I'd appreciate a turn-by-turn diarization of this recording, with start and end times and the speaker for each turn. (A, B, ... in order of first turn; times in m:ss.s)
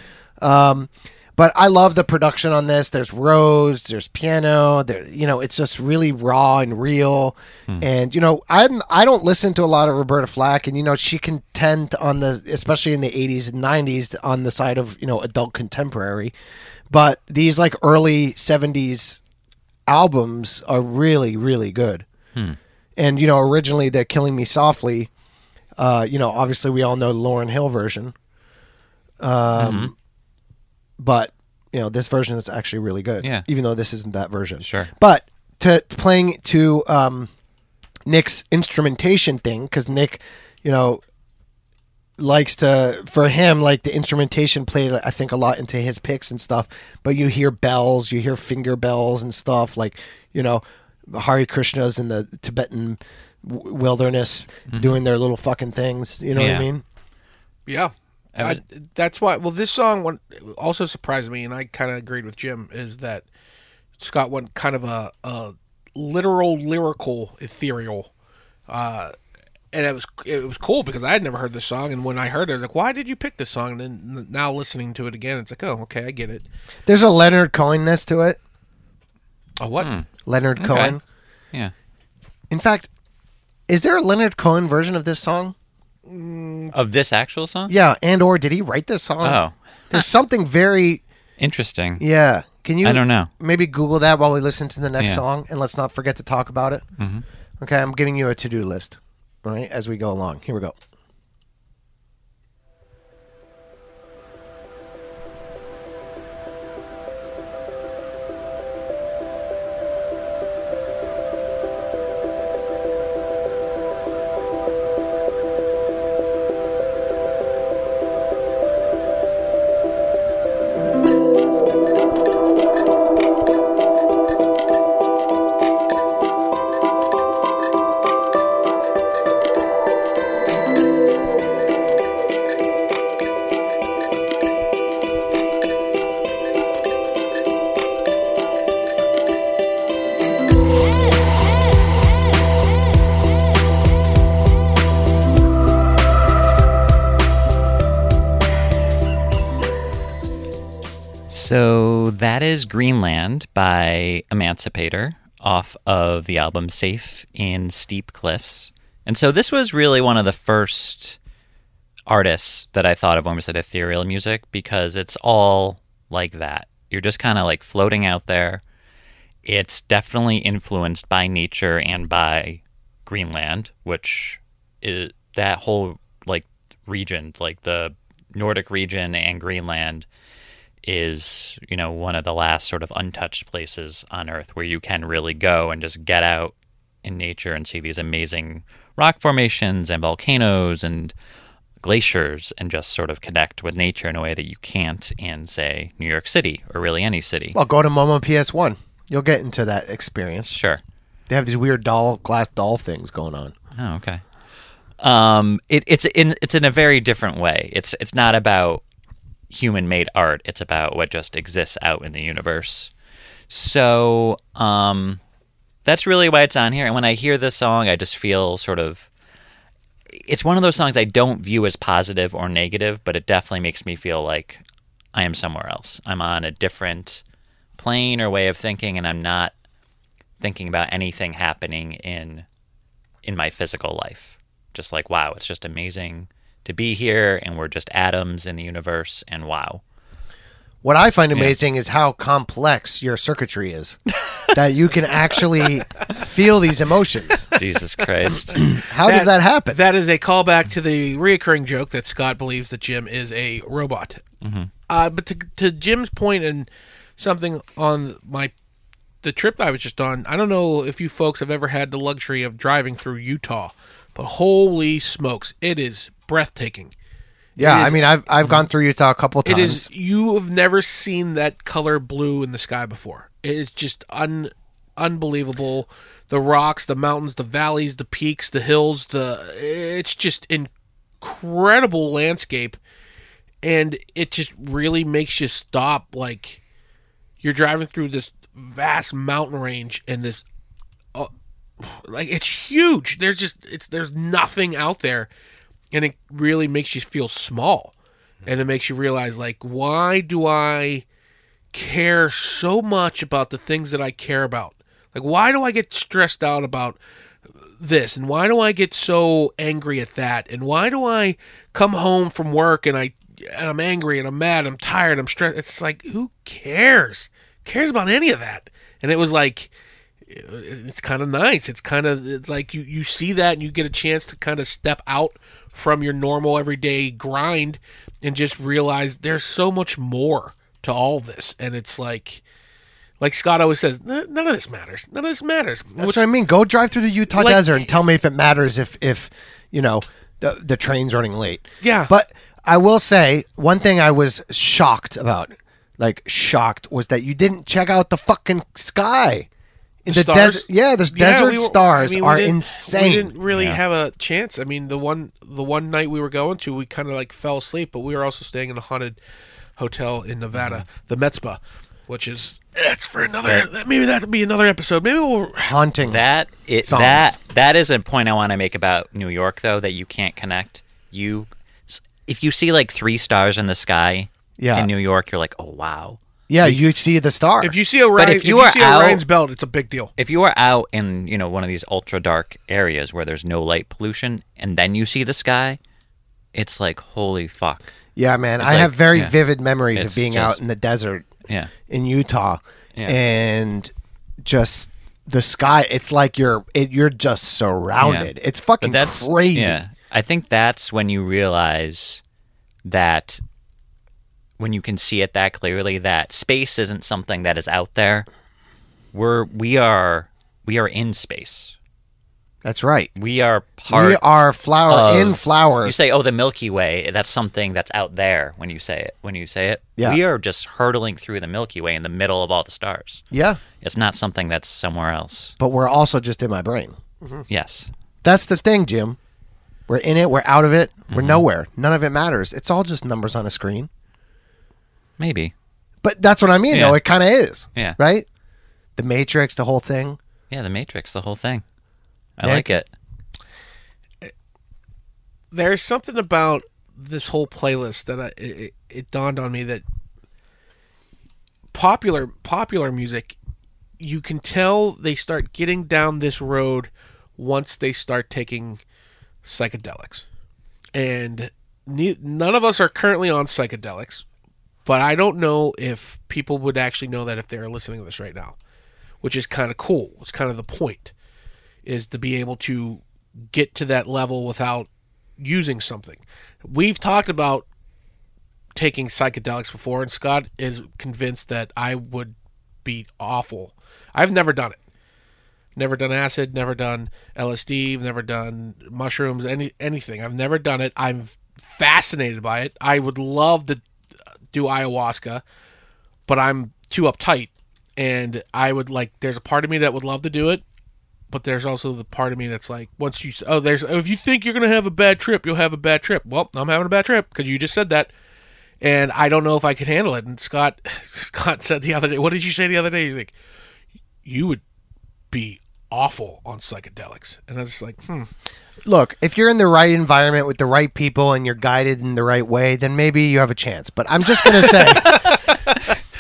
0:00.4-0:16.3 A
0:16.9-0:19.2 A
0:19.9-0:22.0 A
0:23.0-0:25.1 A
0:25.8-0:28.1 A
0:29.2-0:29.9 A
0:29.6-0:29.9 B
0:31.0-0:37.3 A
0:33.2-0:33.4 B
0:34.6-0:34.9 B
0:38.0-0:41.0 A
0:42.2-0:56.8 A
0:54.7-0:55.0 B
0:56.3-0:56.7 B
0:57.7-1:03.2 C
0:58.4-0:58.6 B
1:04.0-1:08.1 C
1:08.7-1:09.1 C
1:09.7-1:16.4 C
1:16.8-1:18.4 A
1:19.6-1:19.9 C
1:19.8-1:21.0 B
1:20.2-1:21.0 A
1:22.5-1:22.9 A
1:23.7-1:25.5 A
1:26.1-1:26.7 C
1:26.7-1:27.7 B
1:27.7-1:31.0 A
1:29.2-1:30.0 B
1:31.4-1:32.0 B
1:32.0-1:36.8 A
1:32.8-1:33.3 B
1:37.0-1:37.2 B
1:37.6-1:40.8 A
2:31.3-2:41.2 B
2:42.1-2:48.6 B
2:49.4-3:00.0 B
3:00.8-3:11.1 B
3:11.8-3:17.6 B
3:17.5-3:20.6 A
3:20.4-3:20.8 B
3:21.3-3:23.5 A
3:23.8-3:24.2 B
3:25.0-3:28.8 B
3:29.5-3:32.9 B
3:33.5-3:35.2 B
3:35.8-3:39.1 B
3:40.3-3:44.6 B
3:45.1-3:47.2 B
3:47.8-3:49.5 B
3:50.4-3:52.4 B
3:53.2-3:59.8 B
4:00.8-4:04.0 A
4:04.5-4:07.5 A
4:07.5-4:08.6 B
4:08.3-4:09.8 A
4:09.0-4:14.2 C
4:14.4-4:14.7 B
4:14.9-4:18.5 C
4:19.2-4:26.9 C
4:27.6-4:29.9 A
4:27.6-4:28.0 C
4:29.4-4:40.7 C
4:41.2-4:42.8 C
4:43.6-4:46.6 C
4:47.4-4:50.4 C
4:51.1-4:55.3 C
4:55.9-4:57.9 C
4:58.4-5:01.0 C
5:01.7-5:07.0 C
5:07.8-5:19.7 C
5:20.3-5:32.4 C
5:33.2-5:36.2 C
5:36.0-5:49.5 A
5:37.3-5:37.8 C
5:41.8-5:42.1 C
5:50.0-5:59.2 C
5:50.1-5:53.3 A
5:53.5-5:53.8 B
5:59.8-6:05.7 C
6:00.5-6:00.8 B
6:05.6-6:06.2 A
6:06.0-6:16.8 B
6:06.8-6:07.4 A
6:14.6-6:14.9 A
6:16.5-6:17.8 A
6:17.6-6:20.1 C
6:18.2-6:19.2 B
6:20.2-6:25.8 B
6:26.5-6:27.9 B
6:28.2-6:31.3 A
6:28.6-6:29.4 B
6:29.9-6:30.6 B
6:31.9-6:33.9 A
6:34.4-6:39.8 A
6:38.0-6:42.2 B
6:42.8-6:43.4 B
6:44.6-6:48.3 B
6:49.1-6:51.8 B
6:52.6-6:53.1 A
6:53.1-6:54.2 B
6:53.9-6:56.0 A
6:54.9-7:03.2 B
7:03.3-7:03.6 A
7:03.8-7:05.5 B
7:05.6-7:07.0 A
7:07.5-7:07.9 B
7:08.2-7:09.2 A
7:09.9-7:13.9 A
7:11.1-7:11.4 B
7:15.2-7:15.5 B
7:16.0-7:18.3 A
7:16.7-7:17.0 B
7:19.0-7:20.2 A
7:20.5-7:21.6 B
7:22.4-7:22.9 B
7:22.4-7:22.7 A
7:25.5-7:29.8 C
7:31.7-7:33.4 C
7:34.0-7:38.8 C
7:39.4-7:40.2 C
7:40.9-7:44.2 C
7:44.8-7:48.6 C
7:49.2-7:51.1 C
7:51.8-7:54.9 C
7:55.4-7:57.7 C
7:58.7-8:02.3 C
8:02.8-8:04.8 C
8:05.8-8:13.8 C
8:14.5-8:15.4 C
8:16.3-8:20.6 C
8:21.3-8:28.1 C
8:28.8-8:33.3 C
8:34.2-8:34.6 C
8:35.3-8:38.3 C
8:38.8-8:45.4 A
8:44.7-8:45.9 C
8:45.0-8:45.5 B